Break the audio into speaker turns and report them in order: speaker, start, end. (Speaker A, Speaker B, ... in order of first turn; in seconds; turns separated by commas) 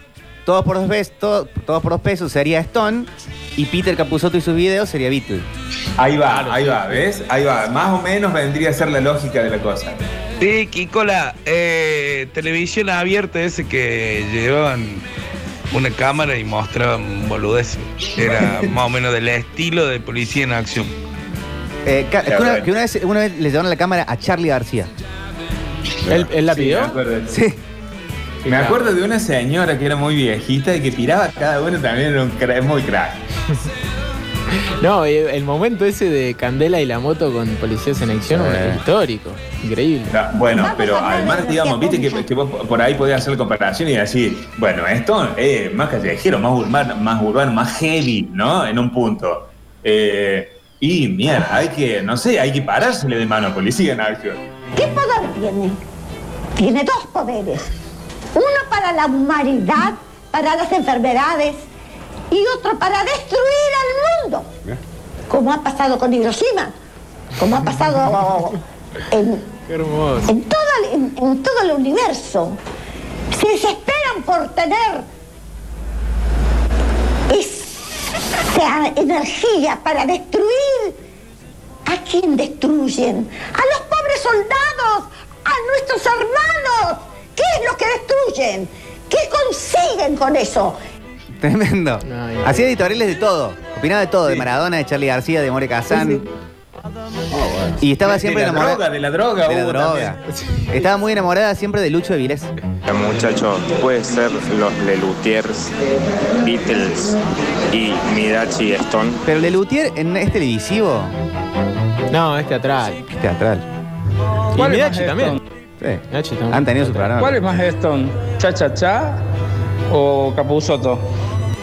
Speaker A: 0.5-5.5, Speaker B: 6.0-10.0, Speaker C: 6.3-7.0, Speaker D: 10.4-15.1, Speaker D: 15.7-20.9, Speaker A: 21.8-24.9, Speaker B: 22.2-22.7, Speaker C: 26.1-26.9, Speaker B: 26.5-27.4, Speaker A: 27.3-27.6, Speaker B: 28.4-33.2, Speaker C: 28.4-28.8, Speaker C: 34.5-40.1, Speaker A: 38.2-38.8, Speaker B: 40.1-54.4, Speaker E: 40.5-42.2, Speaker E: 54.8-55.8, Speaker E: 56.6-57.7, Speaker E: 58.3-61.7, Speaker E: 62.3-64.5, Speaker E: 65.3-66.7, Speaker E: 67.4-68.5, Speaker E: 69.1-69.4, Speaker C: 69.7-70.3, Speaker E: 70.2-72.6, Speaker E: 73.3-75.0, Speaker E: 77.3-81.0, Speaker E: 81.8-90.8, Speaker A: 91.4-96.2, Speaker C: 92.0-92.7, Speaker A: 97.8-98.8, Speaker B: 98.0-100.2, Speaker A: 99.4-102.5, Speaker C: 100.3-100.7, Speaker F: 102.8-105.7, Speaker F: 106.4-107.2, Speaker F: 107.7-109.2, Speaker A: 109.2-111.1, Speaker C: 112.1-113.0, Speaker A: 113.1-113.6, Speaker C: 114.5-115.4, Speaker G: 114.5-115.4, Speaker A: 115.8-117.4, Speaker C: 116.1-117.2, Speaker G: 117.1-119.2, Speaker G: 119.9-121.0